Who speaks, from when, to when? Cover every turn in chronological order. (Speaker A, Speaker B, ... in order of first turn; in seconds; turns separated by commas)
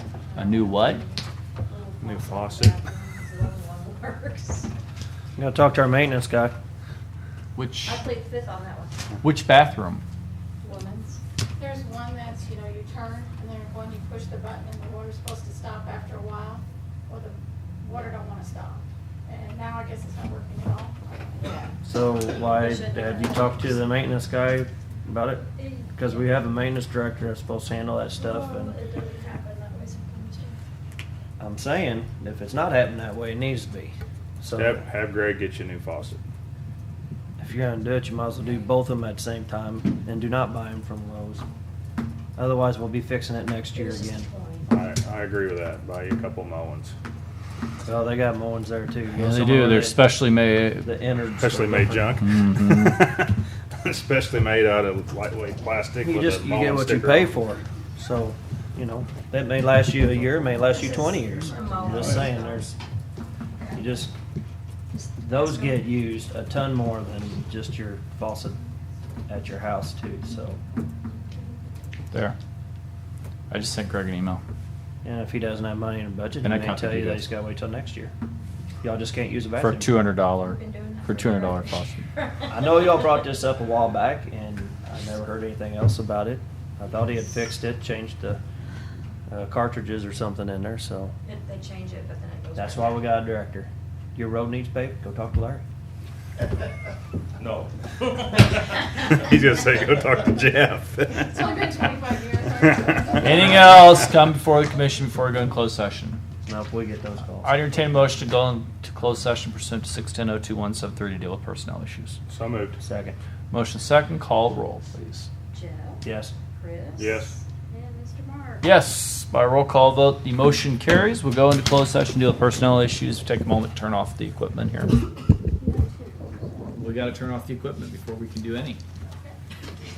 Speaker A: 0.3-4.7, Speaker B: 0.3-1.0, Speaker C: 2.0-2.7, Speaker D: 5.3-6.5, Speaker B: 7.5-8.0, Speaker A: 7.8-9.2, Speaker B: 9.2-10.0, Speaker A: 10.6-11.2, Speaker E: 11.6-21.5, Speaker A: 17.9-18.2, Speaker A: 21.4-21.7, Speaker D: 21.8-28.8, Speaker A: 22.3-23.8, Speaker A: 25.5-26.3, Speaker A: 28.1-30.6, Speaker D: 31.4-34.8, Speaker C: 34.5-36.2, Speaker D: 37.4-41.4, Speaker D: 42.4-44.3, Speaker A: 43.7-44.7, Speaker C: 44.7-46.9, Speaker D: 47.8-50.2, Speaker B: 49.1-50.9, Speaker D: 50.8-52.1, Speaker C: 51.4-57.5, Speaker B: 52.2-53.0, Speaker D: 56.0-62.8, Speaker A: 60.6-62.6, Speaker C: 61.9-62.3, Speaker A: 63.6-63.8, Speaker D: 63.7-64.1, Speaker A: 64.9-66.0, Speaker D: 65.2-68.6, Speaker D: 69.3-70.6, Speaker A: 71.1-71.5, Speaker B: 72.1-72.3, Speaker B: 73.5-74.4, Speaker D: 75.0-78.1, Speaker B: 76.4-77.3, Speaker D: 78.8-80.0, Speaker B: 79.6-82.1, Speaker A: 80.4-82.7, Speaker D: 82.5-88.4, Speaker D: 89.3-91.1, Speaker A: 91.2-93.2, Speaker D: 92.5-95.6, Speaker C: 97.4-101.5, Speaker E: 101.1-103.7, Speaker C: 102.6-103.1, Speaker B: 103.2-106.2, Speaker D: 106.4-107.5, Speaker B: 107.4-112.2, Speaker C: 112.3-112.8, Speaker D: 112.8-113.2, Speaker B: 113.5-115.3, Speaker A: 115.5-118.7, Speaker D: 116.0-116.3, Speaker C: 117.0-117.3, Speaker B: 118.6-124.9, Speaker A: 125.6-126.3, Speaker B: 126.7-128.8, Speaker E: 129.1-129.4